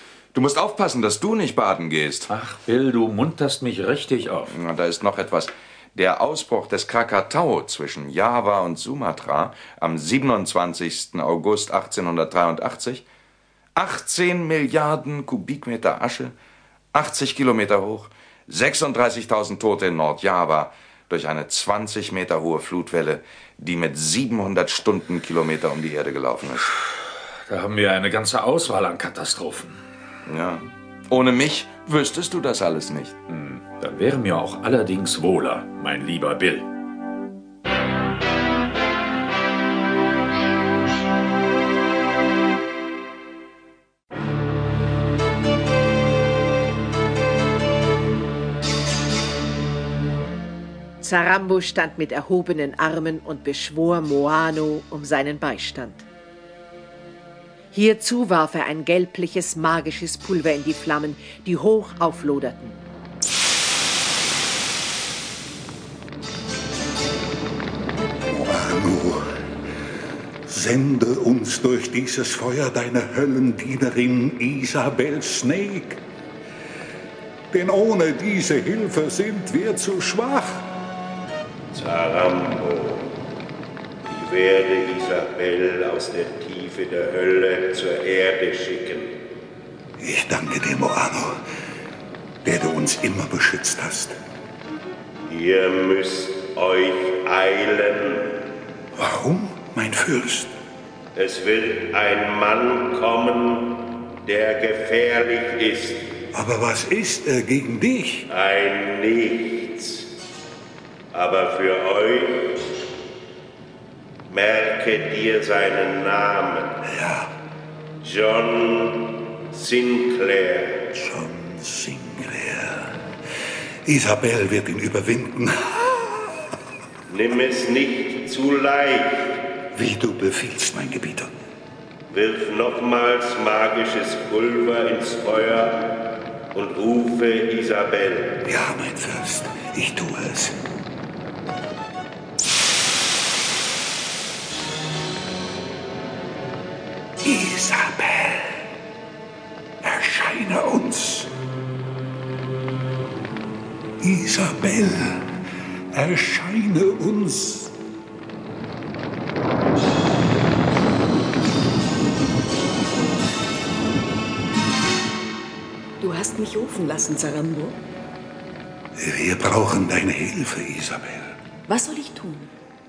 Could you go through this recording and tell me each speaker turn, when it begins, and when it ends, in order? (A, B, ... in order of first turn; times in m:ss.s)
0:00.3-0:02.3 A
0:02.3-0:04.5 B
0:04.5-0:13.0 A
0:13.8-0:16.3 A
0:16.9-0:26.7 A
0:27.5-0:29.8 B
0:30.2-0:33.2 A
0:33.3-0:36.6 B
0:51.0-0:56.0 C
0:57.7-1:02.8 C
1:08.3-1:09.2 D
1:10.5-1:16.0 D
1:17.5-1:20.6 D
1:21.7-1:23.2 E
1:24.0-1:29.2 E
1:30.0-1:31.4 D
1:32.4-1:34.2 D
1:35.2-1:38.5 E
1:39.0-1:40.5 D
1:41.1-1:46.1 E
1:46.3-1:48.3 D
1:48.3-1:50.1 E
1:51.1-1:52.7 E
1:54.3-1:56.8 E
1:56.8-1:57.3 D
1:58.0-2:00.8 E
2:00.9-2:03.0 D
2:03.8-2:06.2 D
2:07.1-2:09.5 E
2:09.7-2:11.3 D
2:12.1-2:18.4 E
2:18.4-2:20.5 D
2:27.2-2:28.6 D
2:29.8-2:31.3 D
2:34.0-2:35.2 D
2:35.9-2:37.7 D
2:46.0-2:47.8 F
2:49.0-2:51.3 D
2:51.7-2:52.5 F